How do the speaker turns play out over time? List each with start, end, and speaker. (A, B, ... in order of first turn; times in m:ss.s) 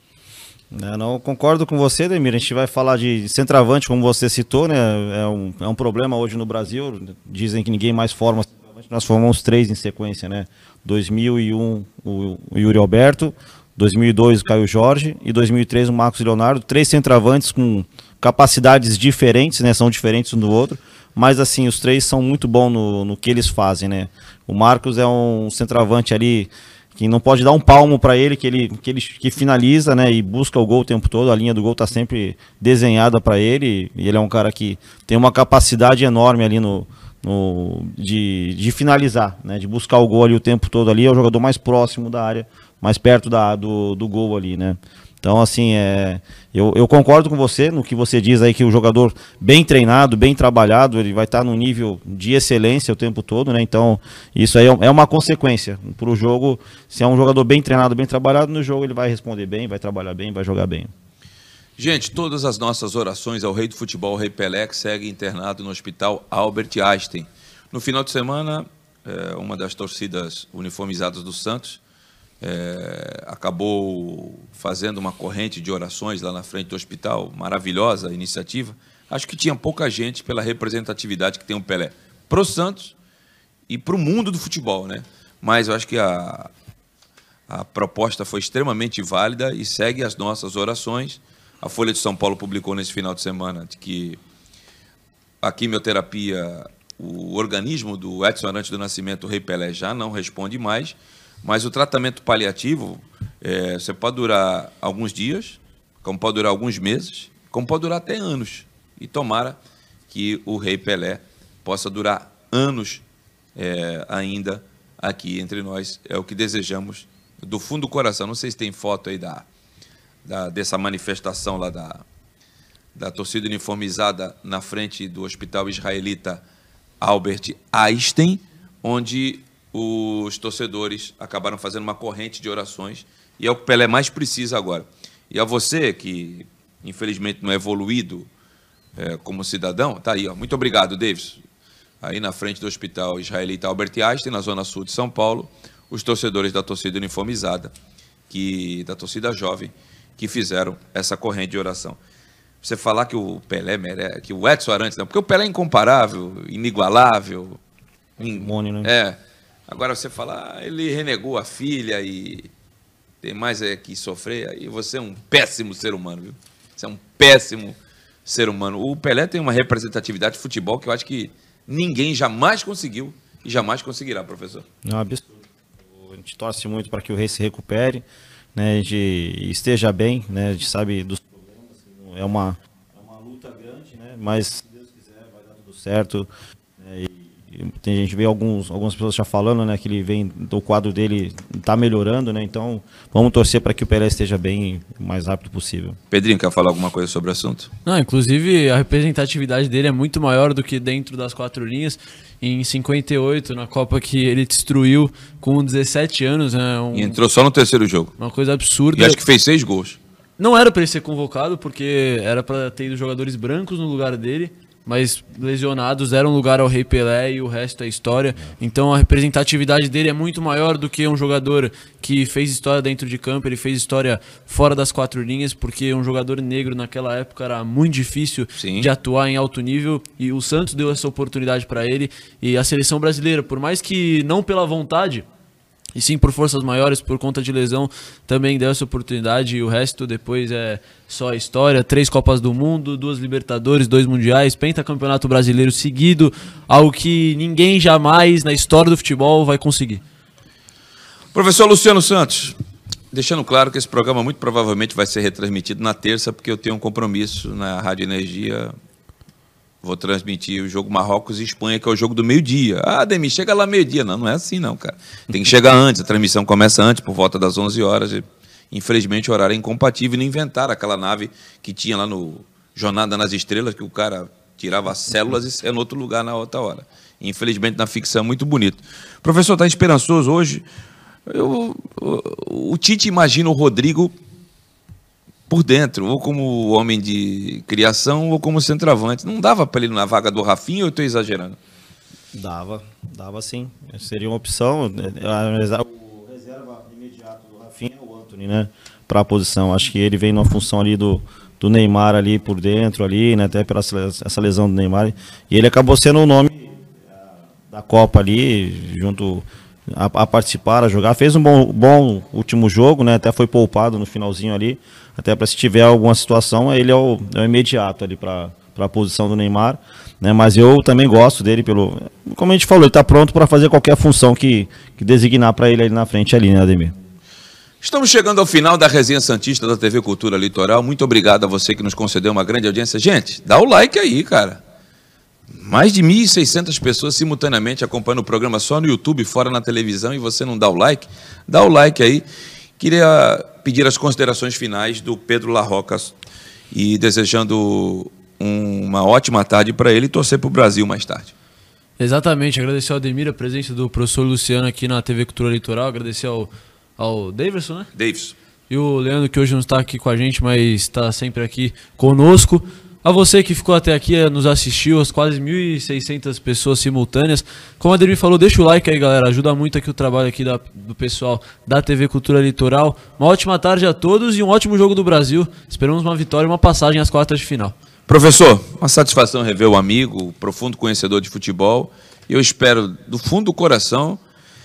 0:00.7-1:00.9 A
1:01.8-1:11.8 B
1:12.4-1:22.9 B
1:23.7-1:26.5 B
1:27.5-1:34.2 B
1:35.4-1:49.6 B
1:50.1-1:53.0 B
1:53.6-1:59.4 B
2:00.2-2:02.0 B
2:02.9-2:06.4 B
2:07.0-2:18.3 B
2:19.0-2:21.4 B
2:22.0-2:27.7 B
2:28.3-2:32.0 B
2:32.6-2:37.6 B
2:38.2-2:42.5 B
2:38.3-2:38.9 A
2:43.2-2:54.6 B
2:54.8-2:58.0 A
2:58.6-3:16.0 A
3:16.1-3:17.7 B
3:17.8-3:27.2 C
3:26.9-3:28.1 B
3:28.2-3:29.2 C
3:28.9-3:30.0 B
3:30.4-3:55.3 C
3:48.6-3:48.9 B
3:55.9-4:10.0 C
4:11.3-4:12.6 B
4:13.1-4:18.7 B
4:19.8-4:40.6 B
4:41.3-4:44.1 B
4:45.5-4:51.6 B
4:52.3-5:26.9 A
5:27.8-5:34.6 B
5:35.5-5:42.2 B
5:42.8-5:46.1 B
5:46.7-5:51.3 B
5:52.0-5:57.9 C
5:57.9-5:58.3 B
5:58.7-6:17.8 C
6:18.1-6:24.2 B